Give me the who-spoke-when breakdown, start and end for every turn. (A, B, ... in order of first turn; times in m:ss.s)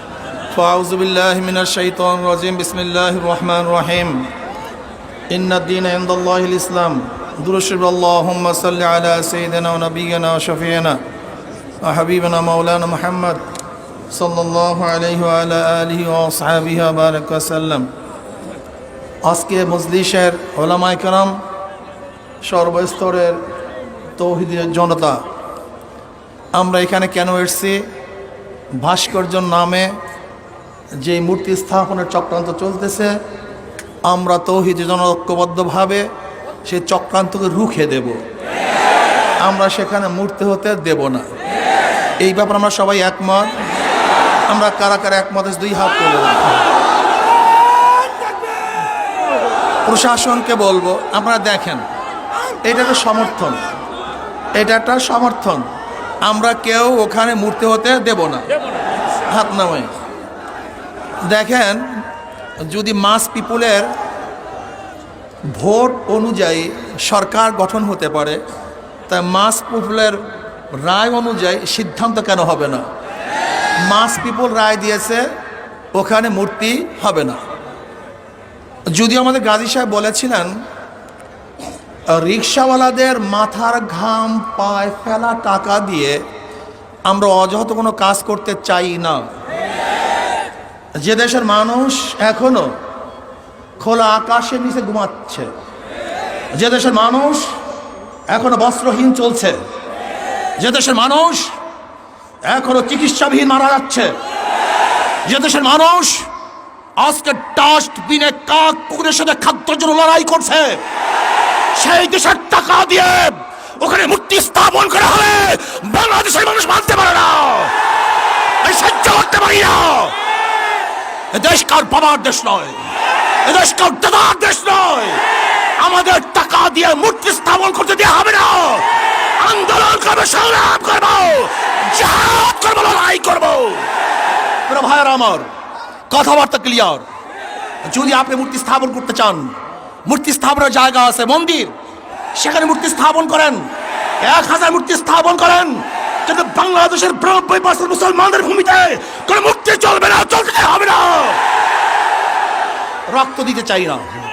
0:00.5-0:04.3 A
0:05.3-0:11.0 A
0:11.8-0:13.4 A
0:14.1-0:17.9 A
0:19.2-0:21.4 A
0:22.4-0:23.4 A
0:24.2-0:25.2 A
0:26.6-0:27.8 A
0:28.8-0:30.0 A
0:31.0-0:33.2 A
0:34.1-0:36.1 A
0:36.6-0:38.2 A
0:39.4-0:41.3 A
0:42.2-0:43.5 A
0:44.5-0:46.6 A
0:49.8-0:51.8 A
0:52.6-0:53.6 A
0:54.6-0:55.6 A
0:56.2-0:58.5 A
0:59.3-0:59.9 A
1:01.3-1:02.0 A
1:02.6-1:03.9 A
1:05.5-1:08.4 A
1:09.1-1:10.2 A
1:10.7-1:12.8 A
1:13.8-1:15.2 A
1:15.9-1:17.4 A
1:18.9-1:20.6 A
1:22.1-1:26.2 A
1:27.1-1:29.2 A
1:31.0-1:32.8 A
1:33.8-1:35.5 A
1:36.5-1:37.5 A
1:38.3-1:39.6 A
1:40.6-1:41.5 A
1:42.5-1:44.1 A
1:45.2-1:46.3 A
1:47.0-1:50.8 A
1:51.7-1:57.7 A
1:58.6-2:00.1 A
2:01.3-2:02.8 A
2:03.4-2:05.2 A
2:05.8-2:13.9 A
2:14.7-2:15.5 A
2:16.1-2:17.0 A
2:17.8-2:19.5 A
2:20.0-2:21.7 A
2:22.3-2:23.7 A
2:24.2-2:31.4 A
2:33.1-2:34.1 A